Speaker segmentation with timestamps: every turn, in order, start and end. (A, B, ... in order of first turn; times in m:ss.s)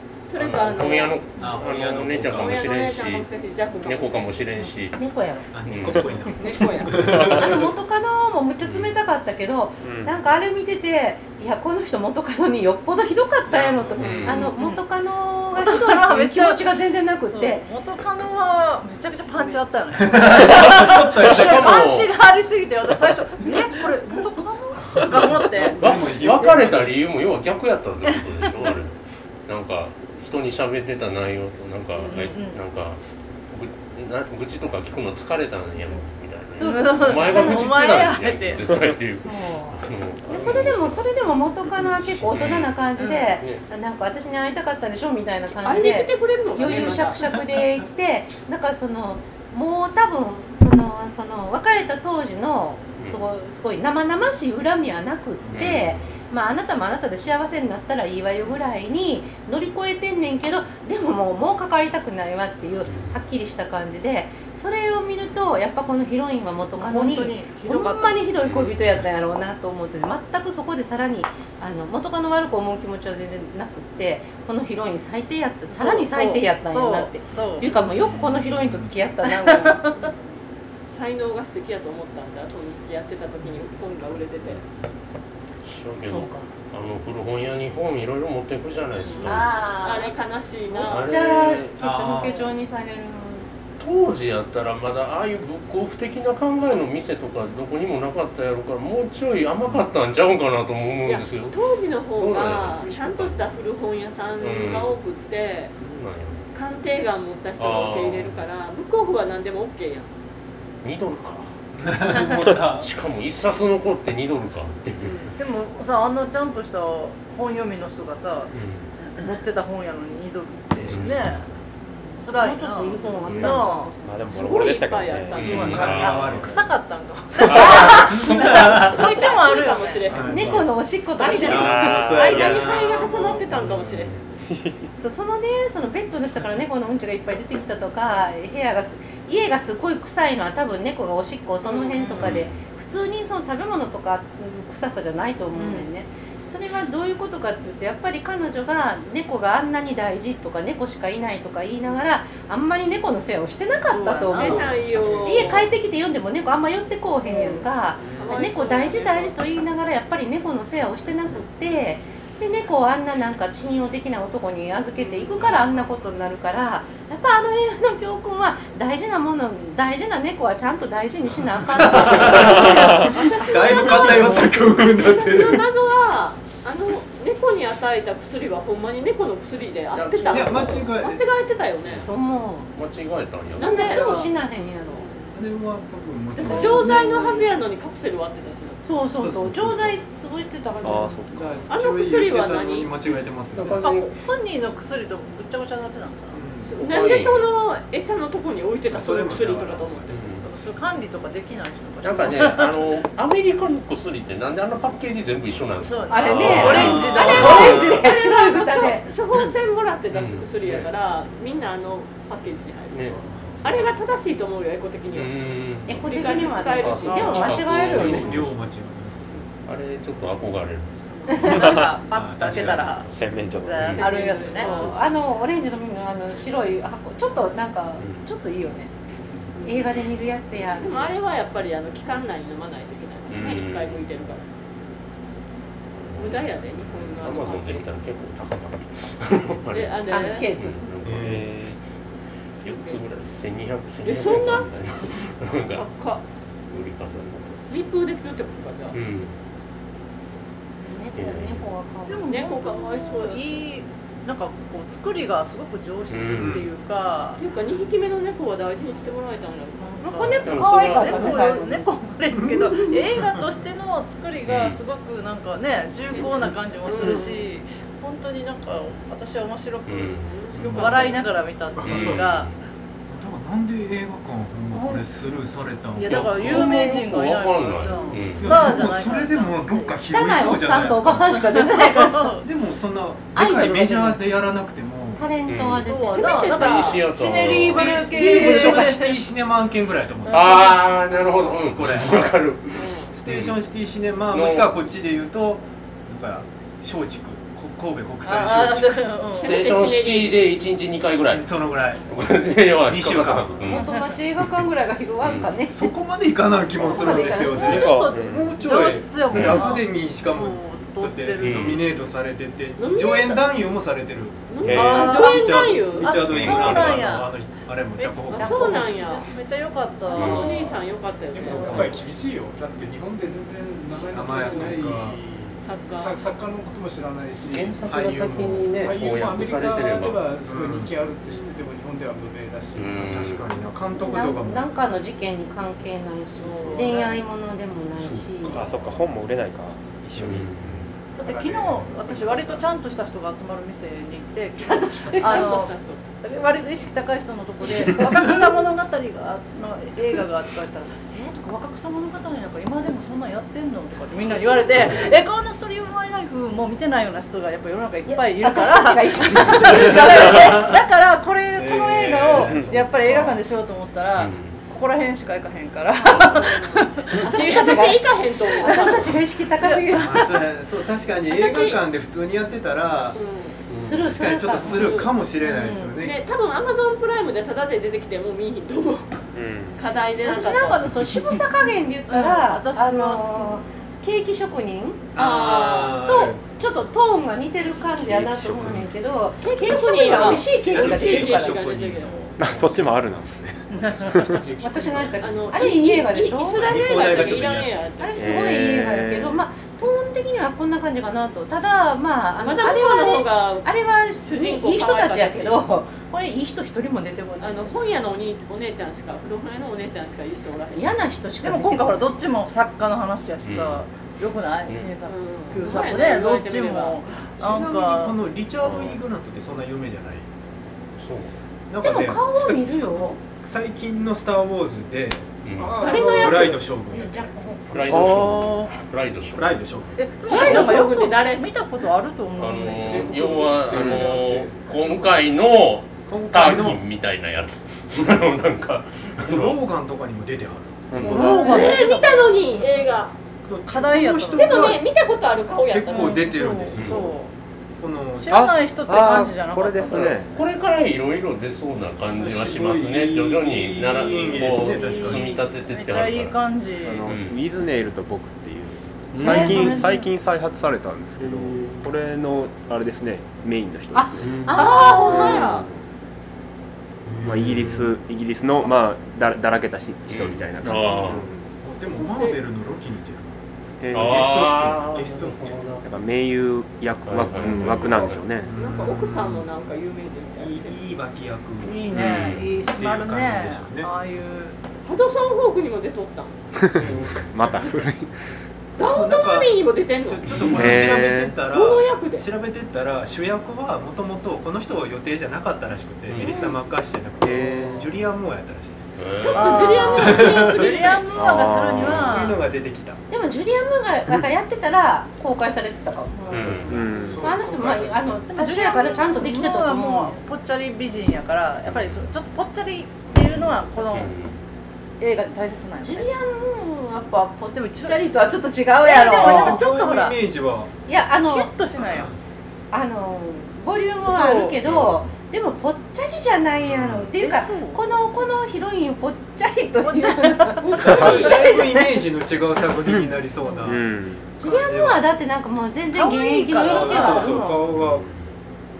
0:00.3-0:01.7 A
0:00.4-0:03.2 B
0:01.4-0:02.5 C
0:02.2-0:04.4 A
0:03.8-0:05.0 B
0:04.6-0:05.5 D
0:05.5-0:07.7 C
0:05.6-0:06.2 B
0:06.4-0:07.1 A
0:07.0-0:17.6 D
0:08.6-0:09.0 B
0:09.8-0:10.2 E
0:13.9-0:14.4 B
0:14.1-0:14.8 F
0:15.6-0:16.7 F
0:17.2-0:25.8 F
0:20.0-0:21.8 C
0:20.4-0:22.1 B
0:25.5-0:26.9 C
0:25.8-0:29.0 B
0:28.1-0:28.7 F
0:29.5-0:41.1 B
0:32.0-0:32.3 A
0:32.1-0:32.6 F
0:36.6-0:38.8 F
0:36.6-0:37.8 D
0:39.2-1:20.1 D
0:42.2-0:43.6 B
0:43.0-0:43.4 F
0:45.6-0:47.5 A
0:55.5-0:56.1 B
1:02.8-1:03.2 B
1:06.8-1:08.3 F
1:08.4-1:08.8 B
1:15.7-1:17.7 F
1:18.0-1:18.9 C
1:19.2-1:19.9 F
1:20.9-1:24.6 A
1:25.6-1:29.5 B
1:26.0-1:26.5 D
1:29.2-1:31.6 A
1:29.2-1:30.1 D
1:30.7-1:33.5 D
1:30.8-1:31.8 B
1:31.8-1:32.4 C
1:33.8-1:41.6 B
1:41.0-1:45.7 A
1:42.2-1:43.4 B
1:44.4-1:45.0 B
1:45.8-1:46.4 B
1:46.5-1:50.1 A
1:47.6-1:48.4 B
1:50.8-1:51.5 B
1:51.7-1:52.9 C
1:52.8-1:55.2 B
1:55.0-1:55.3 A
1:55.4-2:01.5 F
1:58.5-1:58.9 B
2:00.8-2:01.6 B
2:02.2-2:03.9 F
2:02.2-2:04.1 D
2:03.2-2:03.6 B
2:04.0-2:05.9 E
2:04.3-2:06.1 A
2:05.4-2:06.5 B
2:05.4-2:06.7 C
2:05.4-2:10.2 F
2:07.5-2:08.3 B
2:07.5-2:08.0 D
2:07.6-2:09.0 C
2:07.9-2:14.1 A
2:10.1-2:10.6 C
2:10.2-2:12.3 D
2:11.3-2:13.5 C
2:11.5-2:12.8 E
2:13.5-2:14.3 B
2:14.4-2:14.9 E
2:15.0-2:54.5 D
2:21.6-2:22.0 A
2:21.9-2:22.3 F
2:22.2-2:22.6 B
2:25.5-2:25.9 F
2:33.8-2:34.8 F
2:34.3-2:35.7 A
2:37.2-2:37.6 A
2:38.2-2:39.4 A
2:45.0-2:45.4 A
2:51.7-2:55.6 C
2:53.1-3:02.1 A
2:59.9-3:00.9 B
3:00.3-3:01.2 C
3:02.0-3:02.7 D
3:02.7-3:04.0 B
3:03.6-3:04.3 A
3:03.6-3:05.1 D
3:04.8-3:05.3 A
3:05.3-3:06.9 C
3:06.3-3:07.4 D
3:06.4-3:08.8 A
3:08.8-3:11.2 D
3:09.2-3:10.0 C
3:10.8-3:11.6 E
3:11.3-3:13.8 C
3:11.7-3:12.9 A
3:13.6-3:14.1 B
3:13.8-3:16.4 F
3:16.3-3:16.7 C
3:16.6-3:20.0 A
3:16.8-3:17.5 B
3:18.9-3:20.3 C
3:20.1-3:20.5 B
3:20.4-3:22.8 F
3:22.0-3:27.5 B
3:25.8-3:28.0 F
3:26.1-3:29.1 D
3:26.4-3:27.9 C
3:27.0-3:33.0 A
3:30.1-3:30.9 B
3:32.9-3:33.9 B
3:33.6-3:35.4 A
3:35.1-3:38.6 B
3:35.9-3:38.4 D
3:36.0-3:38.1 A
3:37.8-3:39.4 C
3:39.6-3:41.8 B
3:41.3-3:44.9 F
3:41.5-3:43.0 C
3:42.4-3:43.2 B
3:43.1-3:44.0 E
3:43.8-3:44.9 B
3:44.0-3:44.9 A
3:44.5-3:48.9 D
3:48.0-3:48.2 B
3:49.6-3:49.9 A
3:49.6-3:51.1 D
3:50.8-3:54.5 A
3:53.3-3:54.0 B
3:55.9-4:00.0 B
3:56.2-3:57.8 A
3:59.7-4:00.5 A
4:00.1-4:00.8 D
4:00.5-4:01.7 B
4:01.0-4:01.5 C
4:01.2-4:01.8 E
4:02.6-4:05.8 B
4:04.0-4:04.6 A
4:05.7-4:06.2 A
4:06.7-4:07.6 B
4:07.7-4:08.9 A
4:08.9-4:09.3 B
4:10.8-4:12.3 D
4:11.2-4:11.6 B
4:12.1-4:17.4 F
4:12.3-4:13.7 A
4:16.1-4:16.6 B
4:16.4-4:16.7 C
4:17.4-4:20.3 A
4:19.8-4:32.5 F
4:20.0-4:21.9 D
4:20.4-4:21.4 B
4:22.3-4:23.5 C
4:24.4-4:24.8 B
4:26.1-4:27.5 A
4:29.8-4:30.3 B
4:30.2-4:31.2 A
4:30.5-4:31.2 C
4:31.8-4:32.6 B
4:31.8-4:32.2 C
4:33.1-4:36.7 C
4:34.7-4:35.1 F
4:36.0-4:40.0 F
4:36.0-4:38.7 B
4:38.4-4:41.3 C
4:40.1-4:42.4 D
4:41.3-4:42.4 F
4:42.4-4:45.2 C
4:43.3-4:44.2 D
4:45.2-4:46.8 D
4:45.5-4:45.9 B
4:45.8-4:49.2 F
4:46.1-4:47.0 A
4:46.6-4:48.0 B
4:47.3-4:50.8 C
4:48.1-4:48.6 D
4:50.3-4:53.6 B
4:51.6-4:52.4 C
4:52.8-4:53.1 A
4:53.1-4:59.0 C
4:54.3-4:54.7 B
4:58.2-4:59.6 F
4:59.3-5:00.5 A
4:59.3-5:03.9 B
5:01.3-5:02.3 C
5:02.8-5:03.7 C
5:03.6-5:05.9 D
5:05.2-5:05.5 B
5:05.7-5:18.8 C
5:06.8-5:07.8 D
5:06.8-5:11.8 F
5:07.7-5:08.5 E
5:09.3-5:09.6 B
5:11.4-5:11.8 B
5:12.8-5:13.4 A
5:14.5-5:16.2 A
5:14.6-5:15.1 B
5:14.7-5:17.4 F
5:16.2-5:17.0 B
5:18.0-5:20.8 F
5:18.3-5:19.3 A
5:18.3-5:18.9 D
5:20.1-5:21.9 A
5:20.2-5:20.6 B
5:21.3-5:27.8 G
5:21.5-5:22.0 C
5:24.1-5:25.2 C
5:25.6-5:26.2 A
5:27.5-5:30.2 B
5:27.8-5:28.9 C
5:28.7-5:33.3 G
5:30.4-5:30.9 C
5:32.8-5:33.4 B
5:33.0-5:34.6 C
5:34.0-5:38.6 D
5:36.4-5:37.2 F
5:38.4-5:40.5 E
5:40.2-5:40.9 B
5:41.2-6:07.8 F
5:41.2-5:42.7 G
5:44.6-5:45.6 D
5:45.2-5:46.0 A
5:58.1-6:00.7 D
5:59.8-6:00.8 C
6:01.5-6:03.4 C
6:02.3-6:02.7 E
6:04.1-6:04.6 B
6:06.0-6:09.1 A
6:07.2-6:08.0 D
6:08.6-6:10.2 D
6:09.9-6:13.2 C
6:11.3-6:11.8 A
6:13.1-6:13.6 A
6:13.7-6:16.2 C
6:13.8-6:15.0 D
6:14.6-6:15.2 A
6:15.4-6:16.0 F
6:16.0-6:19.2 A
6:19.3-6:19.8 E
6:19.8-6:20.9 A
6:20.2-6:25.1 D
6:22.1-6:23.6 F
6:25.1-6:26.1 A
6:25.1-6:26.4 C
6:26.0-6:31.6 D
6:28.1-6:28.8 C
6:28.3-6:28.8 E
6:29.4-6:32.2 A
6:29.7-6:34.1 C
6:32.4-6:34.2 E
6:33.7-6:34.5 F
6:34.1-6:35.4 G
6:34.6-6:37.1 D
6:35.2-6:38.5 A
6:36.5-6:37.9 C
6:38.0-6:47.8 D
6:38.2-6:39.4 E
6:42.4-6:45.6 A
6:47.4-6:51.0 A
6:50.7-6:52.1 D
6:51.4-6:58.2 F
6:53.4-6:53.8 B
6:55.0-6:57.0 A
6:57.4-7:00.3 C
6:58.6-6:59.0 E
7:01.0-7:01.3 B
7:01.7-7:05.3 C
7:01.8-7:03.2 D
7:05.4-7:05.8 B
7:05.6-7:06.5 G
7:05.8-7:07.9 D
7:05.9-7:07.3 C
7:07.7-7:09.6 B
7:07.9-7:08.8 E
7:08.0-7:08.3 C
7:09.3-7:10.0 C
7:10.0-7:13.3 F
7:10.3-7:11.5 A
7:10.3-7:10.6 B
7:12.4-7:19.6 B
7:12.8-7:15.2 G
7:13.7-7:14.0 E
7:16.0-7:16.8 C
7:19.2-7:21.7 C
7:20.9-7:21.7 E
7:21.0-7:22.8 F
7:21.1-7:23.1 A
7:23.4-7:24.8 C
7:23.6-7:24.8 F
7:24.3-7:26.3 A
7:25.7-7:27.2 C
7:25.9-7:27.3 F
7:26.7-7:27.1 B
7:27.8-7:28.5 C
7:28.2-7:30.2 F
7:28.3-7:30.4 E
7:29.9-7:37.4 B
7:32.2-7:35.3 C
7:33.8-7:37.1 F
7:36.8-7:45.8 E
7:39.1-7:40.0 B
7:39.2-7:40.1 F
7:41.2-7:41.8 B
7:43.9-7:45.5 D
7:44.5-7:45.6 A
7:47.0-7:47.9 C
7:47.2-7:51.5 E
7:47.4-7:47.8 B
7:50.1-7:51.3 B
7:51.6-7:53.3 C
7:51.9-7:52.4 A
7:53.8-7:54.2 E
7:53.9-7:55.8 B
7:53.9-7:55.8 C
7:55.8-7:58.5 E
7:57.0-7:58.3 B
7:57.5-7:58.1 F
7:58.4-7:59.5 C
7:58.5-8:00.8 A
8:00.4-8:03.9 C
8:01.6-8:04.6 F
8:01.9-8:02.5 B
8:04.8-8:06.3 A
8:06.6-8:08.1 E
8:06.8-8:07.3 B
8:06.8-8:07.3 C
8:07.4-8:07.7 A
8:08.8-8:11.0 A
8:08.8-8:09.5 C
8:10.1-8:18.8 C
8:10.4-8:10.7 B
8:10.4-8:11.4 E
8:11.5-8:12.3 A
8:16.1-8:16.4 B
8:16.2-8:16.6 D
8:17.2-8:18.0 E
8:19.0-8:19.7 B
8:19.2-8:21.1 A
8:19.3-8:22.5 F
8:19.8-8:20.2 D
8:19.9-8:20.8 C
8:21.1-8:22.0 E
8:21.6-8:22.2 B
8:21.9-8:23.0 C
8:23.1-8:30.2 D
8:26.3-8:26.8 B
8:26.3-8:26.9 C
8:26.7-8:27.3 E
8:26.7-8:28.0 G
8:28.3-8:34.1 F
8:31.6-8:32.1 B
8:33.2-8:34.4 B
8:35.0-8:36.1 F
8:35.8-8:39.6 D
8:37.5-8:38.1 F
8:38.8-8:40.2 F
8:39.2-8:40.7 C
8:40.9-8:41.5 D
8:41.3-8:42.1 F
8:42.7-8:52.1 D
8:44.1-8:44.6 F
8:44.6-8:45.1 B
8:46.7-8:47.0 C
8:47.1-8:47.8 F
8:49.8-8:51.1 F
8:50.6-8:51.4 A
8:50.8-8:55.0 C
8:53.6-8:54.3 E
8:54.4-8:57.6 D
8:55.9-8:57.5 F
8:56.7-8:58.0 C
8:57.7-8:58.2 B